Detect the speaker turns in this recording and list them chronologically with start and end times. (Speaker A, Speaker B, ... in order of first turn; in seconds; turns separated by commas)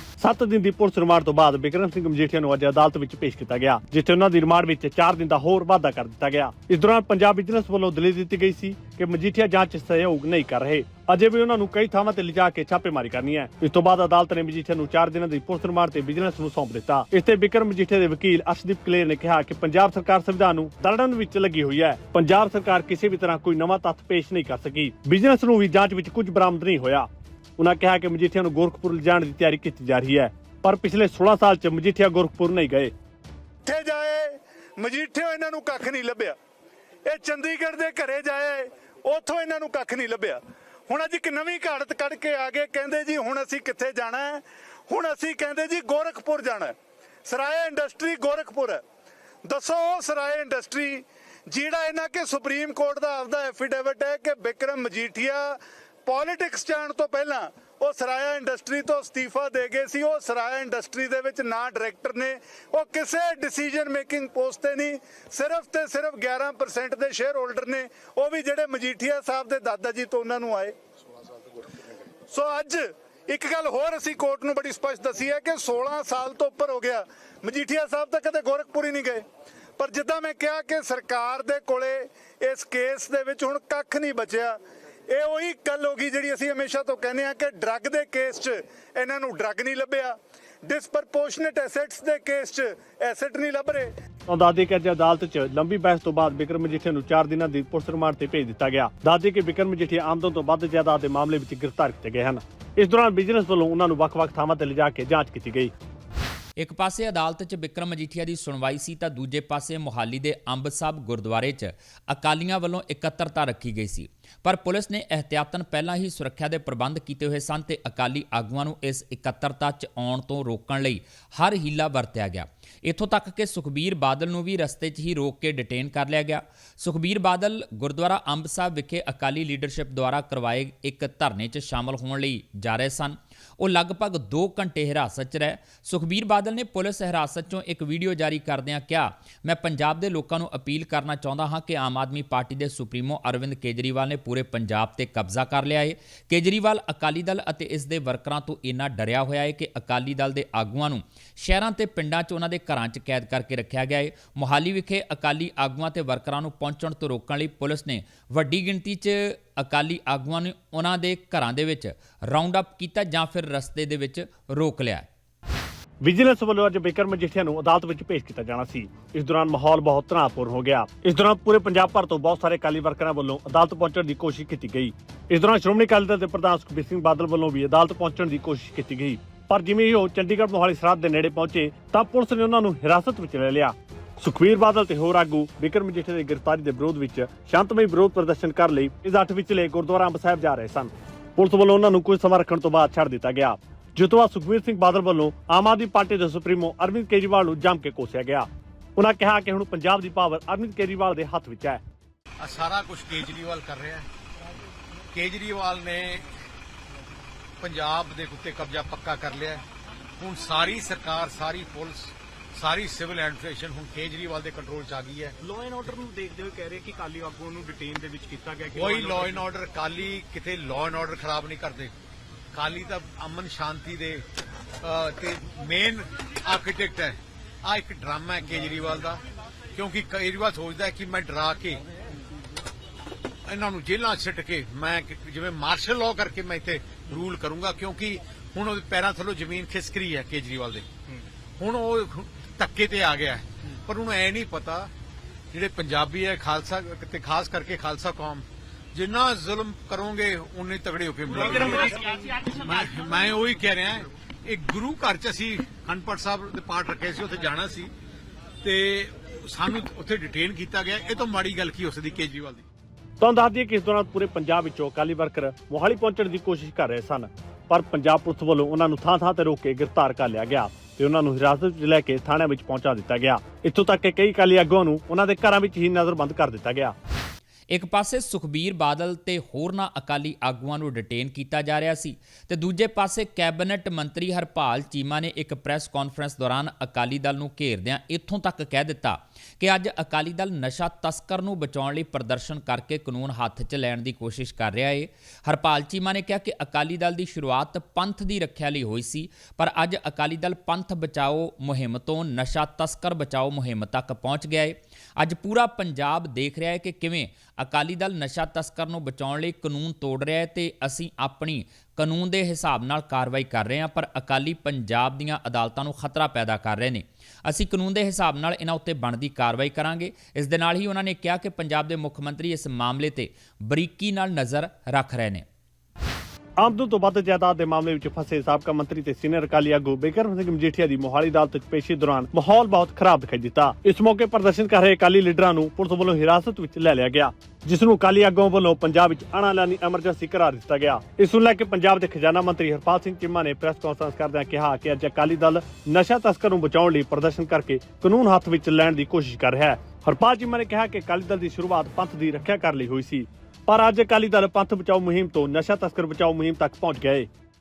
Speaker A: 0.2-32.9, Speaker B: 33.6-36.4, Speaker B: 37.0-46.7, Speaker B: 47.3-48.8, Speaker B: 49.4-70.7, Speaker B: 72.3-79.2, Speaker B: 79.8-84.6, Speaker B: 85.1-93.9, Speaker A: 94.3-105.7, Speaker C: 106.6-165.1, Speaker A: 166.0-201.8, Speaker D: 202.4-204.1, Speaker D: 205.1-206.3, Speaker D: 207.6-209.6, Speaker D: 210.2-215.3, Speaker E: 215.4-219.5, Speaker D: 218.7-221.9, Speaker D: 222.5-224.2, Speaker D: 224.8-229.2, Speaker D: 229.7-231.8, Speaker D: 233.5-240.9, Speaker D: 241.6-244.9, Speaker D: 245.5-252.0, Speaker E: 251.3-252.9, Speaker D: 252.5-257.9, Speaker D: 258.6-262.6, Speaker A: 263.2-276.9, Speaker C: 277.7-325.4, Speaker A: 326.6-357.3